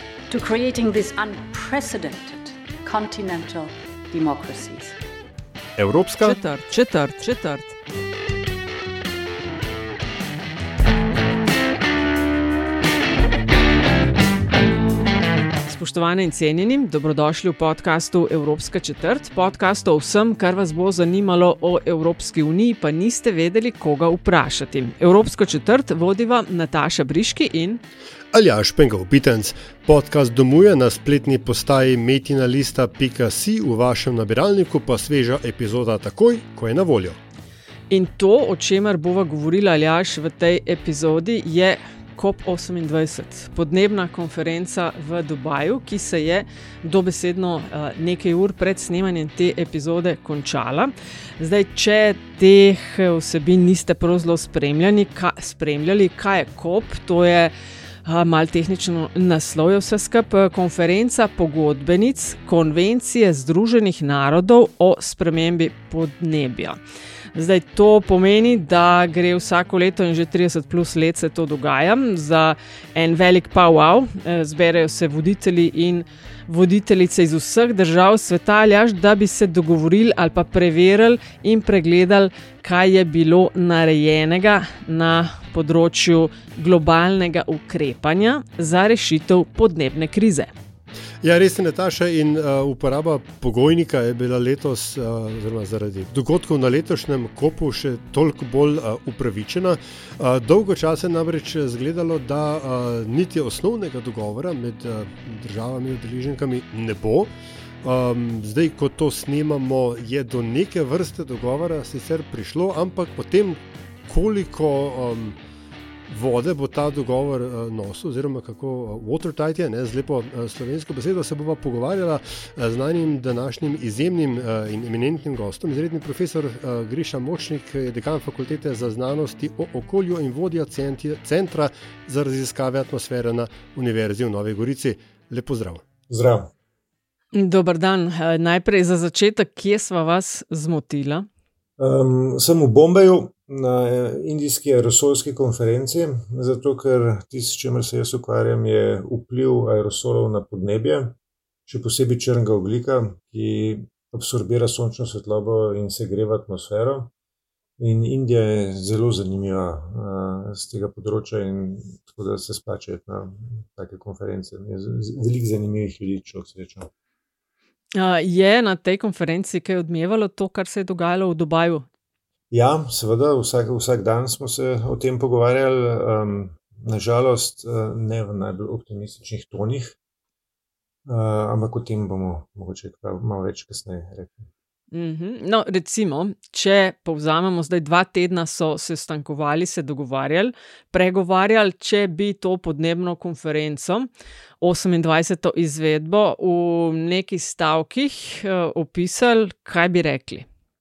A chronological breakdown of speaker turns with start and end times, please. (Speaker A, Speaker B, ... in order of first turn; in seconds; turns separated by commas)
Speaker A: 0.3-5.0, Speaker B: 5.8-6.4, Speaker C: 6.2-7.7, Speaker C: 15.7-27.8, Speaker B: 28.3-37.2, Speaker C: 37.9-57.5, Speaker C: 58.0-66.8, Speaker C: 67.3-90.5, Speaker B: 91.2-107.3, Speaker B: 107.8-115.4, Speaker B: 116.1-135.8, Speaker D: 136.1-136.5, Speaker C: 137.3-141.3, Speaker D: 141.8-151.2, Speaker D: 151.7-157.1, Speaker D: 157.8-166.9, Speaker C: 168.0-171.9, Speaker D: 172.5-180.0, Speaker D: 181.1-184.5, Speaker C: 184.9-194.1, Speaker C: 194.6-200.5